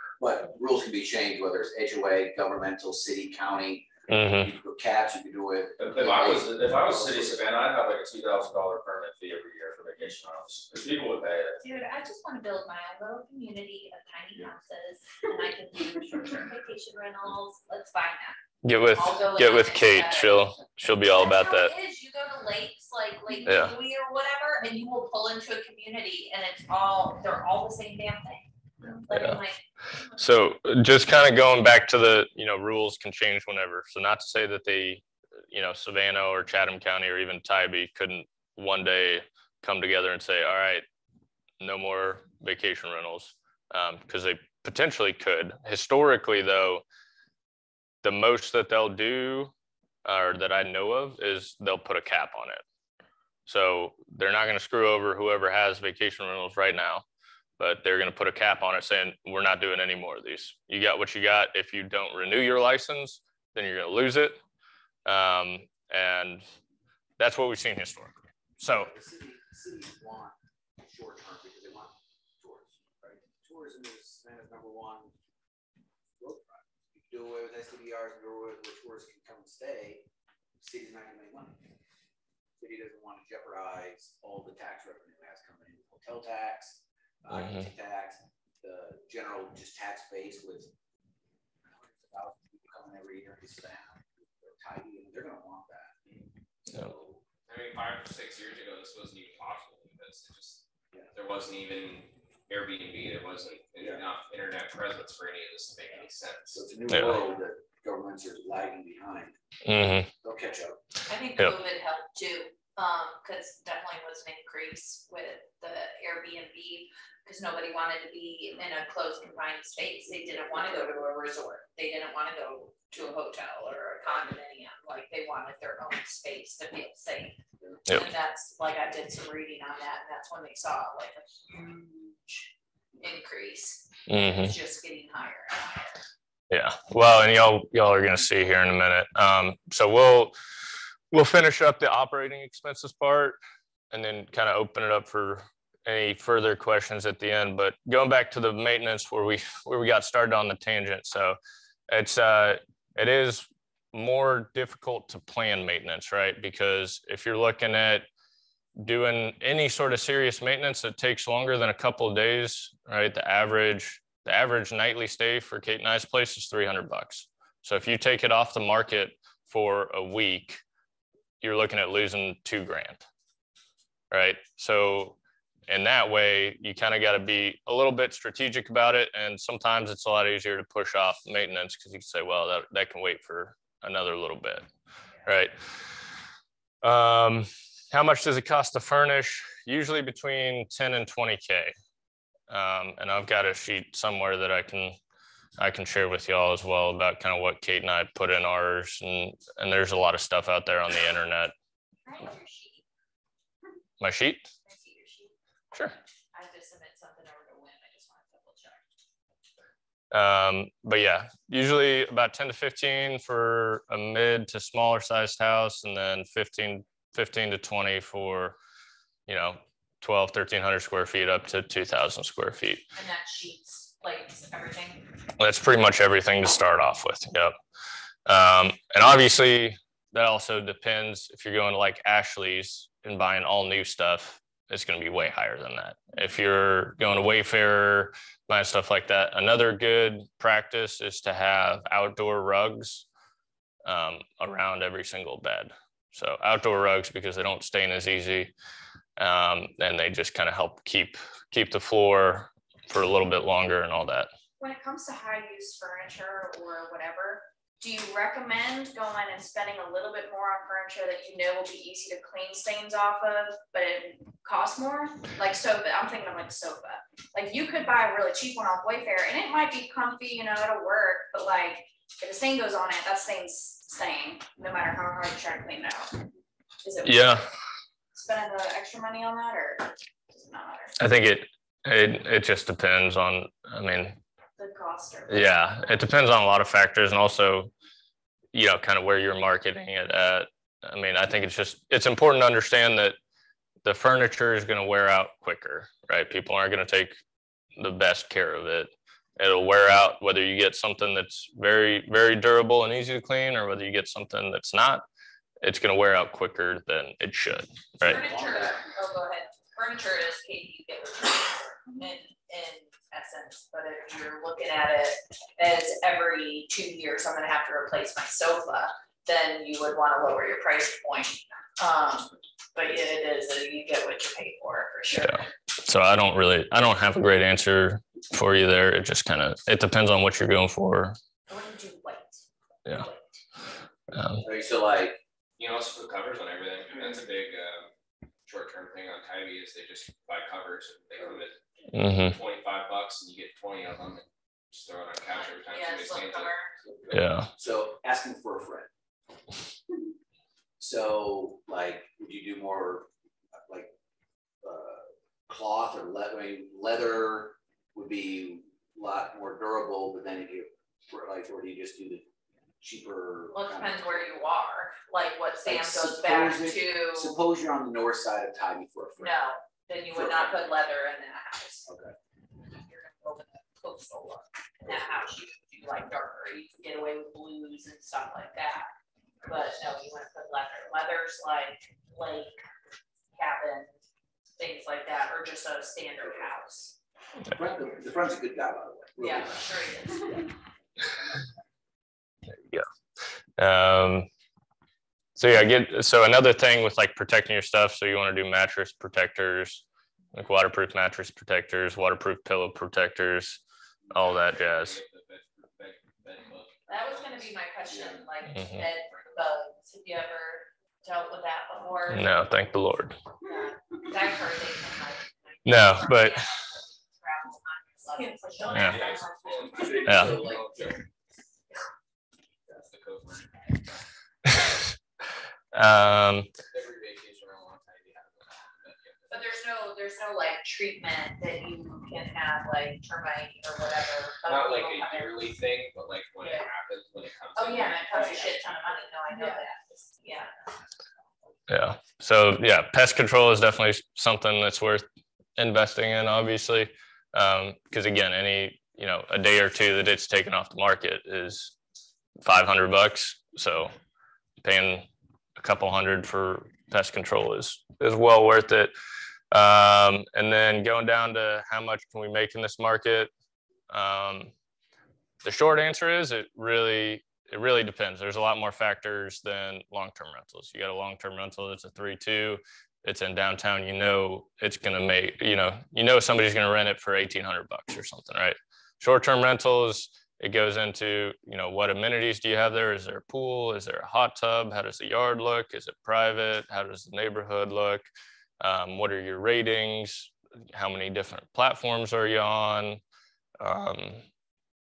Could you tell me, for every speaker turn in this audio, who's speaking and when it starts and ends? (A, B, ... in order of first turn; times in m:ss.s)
0:00.2-0:07.4 A
0:04.1-0:04.5 B
0:05.8-0:11.6 C
0:11.6-0:18.4 D
0:18.6-0:21.7 B
0:18.9-0:20.4 D
0:21.1-0:29.6 D
0:23.4-0:23.7 B
0:29.1-0:29.4 B
0:30.2-0:40.8 B
0:41.6-0:46.8 B
0:48.0-0:49.5 B
0:50.0-0:52.6 B
0:53.5-0:57.0 B
0:57.6-1:04.4 B
1:05.1-1:06.4 B
1:07.2-1:08.9 B
1:08.6-1:15.1 A
1:16.2-1:20.1 A
1:20.6-1:21.6 A
1:22.6-1:30.7 A
1:27.3-1:27.7 B
1:31.6-1:36.0 A
1:36.7-1:37.2 A
1:37.4-1:46.7 E
1:46.5-1:49.3 A
1:46.9-1:47.2 B
1:49.6-1:50.1 B
1:50.2-1:50.8 A
1:51.1-2:12.5 D
2:13.0-2:16.0 D
2:14.1-2:14.6 B
2:16.5-2:20.3 B
2:21.1-2:23.4 B
2:23.9-2:31.4 B
2:31.9-2:38.0 B
2:38.8-2:50.6 B
2:51.4-2:53.0 B
2:54.1-2:55.2 B
2:55.7-3:04.7 B
3:05.3-3:05.8 B
3:06.8-3:11.7 B
3:12.5-3:15.0 B
3:15.6-3:21.5 B
3:22.0-3:22.8 D
3:24.0-3:24.5 B
3:24.7-3:25.3 D
3:26.3-3:28.8 D
3:30.1-3:38.6 B
3:39.3-3:42.9 B
3:42.9-3:45.0 D
3:45.4-3:47.6 B
3:48.3-4:03.0 B
4:03.8-4:08.5 B
4:09.2-4:14.3 B
4:14.6-4:36.3 F
4:36.8-4:37.4 F
4:37.0-4:37.5 B
4:38.1-4:41.0 F
4:41.0-4:44.2 B
4:44.6-4:46.0 F
4:45.3-4:47.7 B
4:48.5-4:53.2 B
4:53.8-4:57.2 B
4:57.8-5:05.0 B
5:05.6-5:08.2 B
5:08.0-5:25.4 D
5:08.0-5:08.9 A
5:25.1-5:31.2 B
5:31.5-5:33.2 D
5:34.1-5:34.4 B
5:34.4-5:35.2 A
5:35.6-5:37.9 E
5:38.4-5:46.5 E
5:41.9-5:42.4 B
5:45.3-5:46.7 D
5:46.8-5:48.9 A
5:47.1-5:47.5 B
5:50.8-5:53.1 A
5:53.7-5:53.9 A
5:54.6-6:02.3 A
6:02.8-6:04.3 A
6:03.5-6:07.4 D
6:05.6-6:09.4 A
6:09.2-6:11.9 D
6:10.1-6:10.8 A
6:11.9-6:12.2 A
6:12.7-6:18.9 D
6:14.8-6:15.3 A
6:19.4-6:22.6 D
6:23.4-6:23.9 D
6:24.6-6:27.0 D
6:27.5-6:29.6 A
6:29.2-6:30.6 D
6:31.0-6:31.5 A
6:32.5-6:32.8 B
6:33.6-6:34.3 B
6:35.4-6:45.0 B
6:44.2-6:47.6 E
6:46.9-6:52.3 D
6:47.9-6:48.2 A
6:48.4-6:48.9 B
6:49.0-6:49.4 E
6:52.1-6:53.2 B
6:53.4-7:00.0 D
6:55.6-6:56.4 B
6:58.1-7:00.0 F
6:58.7-7:01.0 E
6:58.7-6:59.0 B
6:59.8-7:00.7 A
7:00.0-7:00.4 B
7:02.7-7:04.0 E
7:04.4-7:05.0 B
7:05.7-7:06.5 B
7:06.7-7:09.5 E
7:09.3-7:15.4 D
7:14.4-7:18.6 E
7:17.6-7:20.5 D
7:18.1-7:18.6 F
7:19.3-7:19.6 F
7:21.7-7:25.0 B
7:25.6-7:31.7 B
7:32.4-7:34.0 B
7:34.6-7:38.9 B
7:39.5-7:43.3 B
7:43.9-7:44.5 B
7:45.4-8:08.1 B
8:08.6-8:13.0 B
8:13.6-8:14.2 B